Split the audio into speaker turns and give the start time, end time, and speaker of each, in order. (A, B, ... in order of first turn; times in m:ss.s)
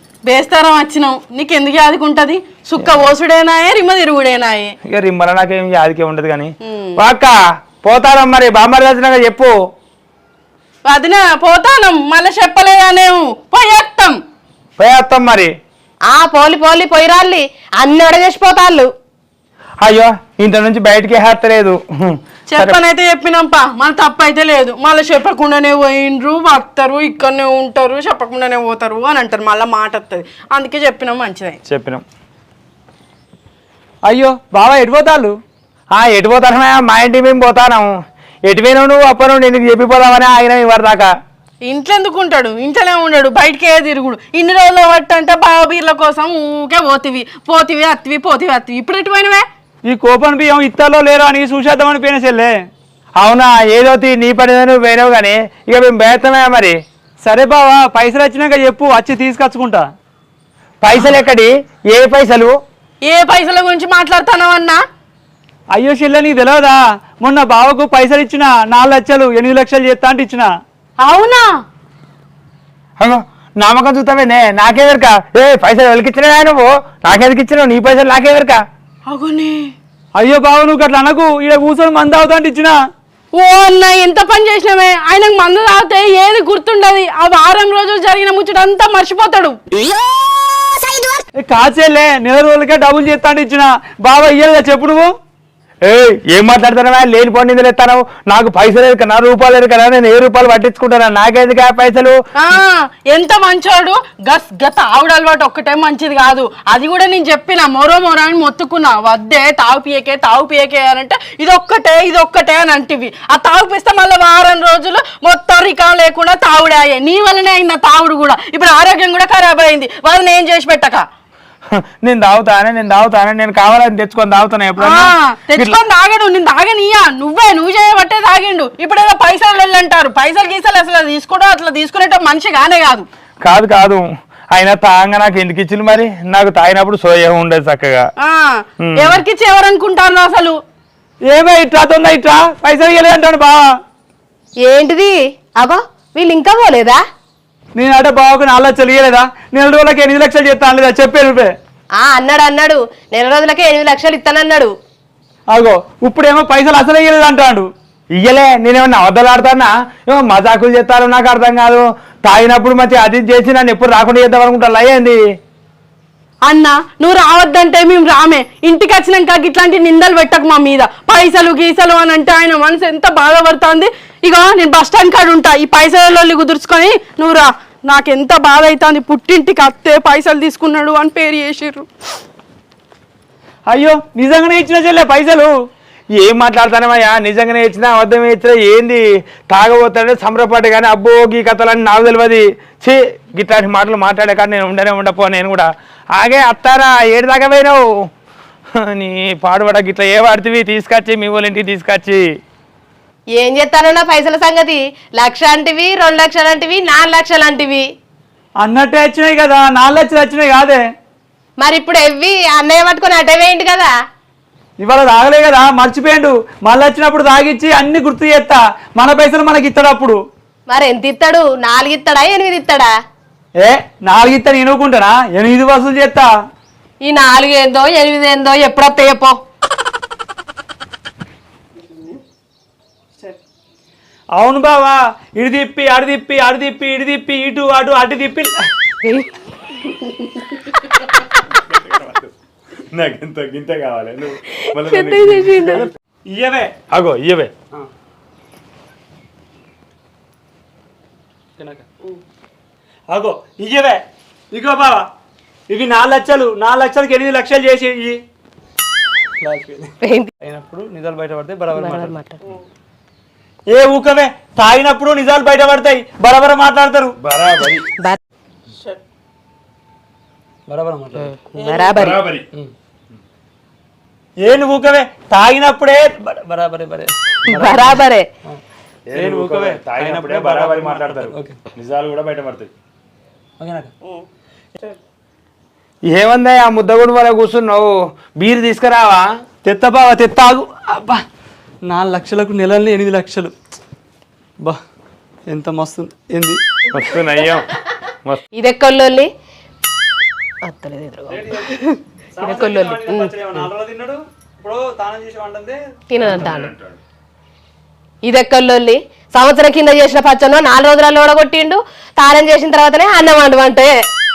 0:00.3-0:04.8 A
0:04.9-0:09.5 B
0:06.7-0:07.0 A
0:10.9-0:14.2 A
0:14.8-0:15.5 B
0:16.1-0:18.9 C
0:19.8-0:22.8 B
0:22.5-0:31.6 A
0:31.7-0:32.0 B
0:34.1-0:35.4 D
0:35.9-0:37.9 B
0:38.5-0:41.1 B
0:41.6-0:49.4 A
0:49.8-0:52.6 D
0:53.2-0:56.8 B
0:57.2-0:59.9 D
1:00.8-1:02.6 B
1:03.0-1:04.8 A
1:05.7-1:10.5 D
1:11.0-1:11.5 A
1:13.0-1:18.6 B
1:19.1-1:19.7 A
1:20.2-1:22.8 D
1:23.3-1:29.6 A
1:30.4-1:31.1 C
1:31.4-1:35.1 D
1:35.9-1:42.2 B
1:42.4-2:01.0 A
2:02.0-2:05.8 B
2:04.8-2:13.1 A
2:13.4-2:18.1 B
2:18.2-2:20.6 A
2:18.8-2:19.2 B
2:21.3-2:23.6 D
2:24.6-2:27.0 C
2:27.8-2:31.5 D
2:32.0-2:34.7 C
2:35.5-2:37.7 D
2:38.2-2:45.2 B
2:46.4-3:01.9 A
3:03.7-3:05.5 D
3:06.2-3:17.8 B
3:18.8-3:22.2 B
3:23.4-3:27.8 C
3:28.6-3:30.8 D
3:31.6-3:33.9 C
3:34.8-3:40.2 D
3:40.7-3:42.9 C
3:43.6-3:46.3 D
3:47.0-3:49.4 C
3:54.4-3:58.6 D
3:59.0-3:59.4 C
4:01.5-4:02.3 B
4:02.9-4:05.8 B
4:04.6-4:05.9 C
4:06.3-4:06.7 D
4:06.9-4:07.5 B
4:11.6-4:11.9 D
4:13.1-4:15.1 D
4:15.7-4:18.2 D
4:19.4-4:22.2 D
4:20.0-4:20.3 C
4:21.8-4:22.4 C
4:23.7-4:27.2 D
4:27.2-4:27.8 B
4:30.7-4:31.3 D
4:31.2-4:32.2 C
4:31.9-4:32.5 B
4:34.4-4:38.6 D
4:37.5-4:38.3 C
4:39.1-4:42.7 B
4:39.2-4:41.6 D
4:43.6-4:43.9 D
4:46.1-4:49.3 B
4:49.6-4:51.2 D
4:51.9-4:53.5 D
4:55.5-4:56.6 D
4:56.9-4:57.7 B
4:58.6-4:59.3 C
5:00.6-5:01.8 C
5:01.3-5:05.8 D
5:02.4-5:03.3 C
5:06.1-5:06.7 C
5:06.4-5:07.0 B
5:08.3-5:13.9 C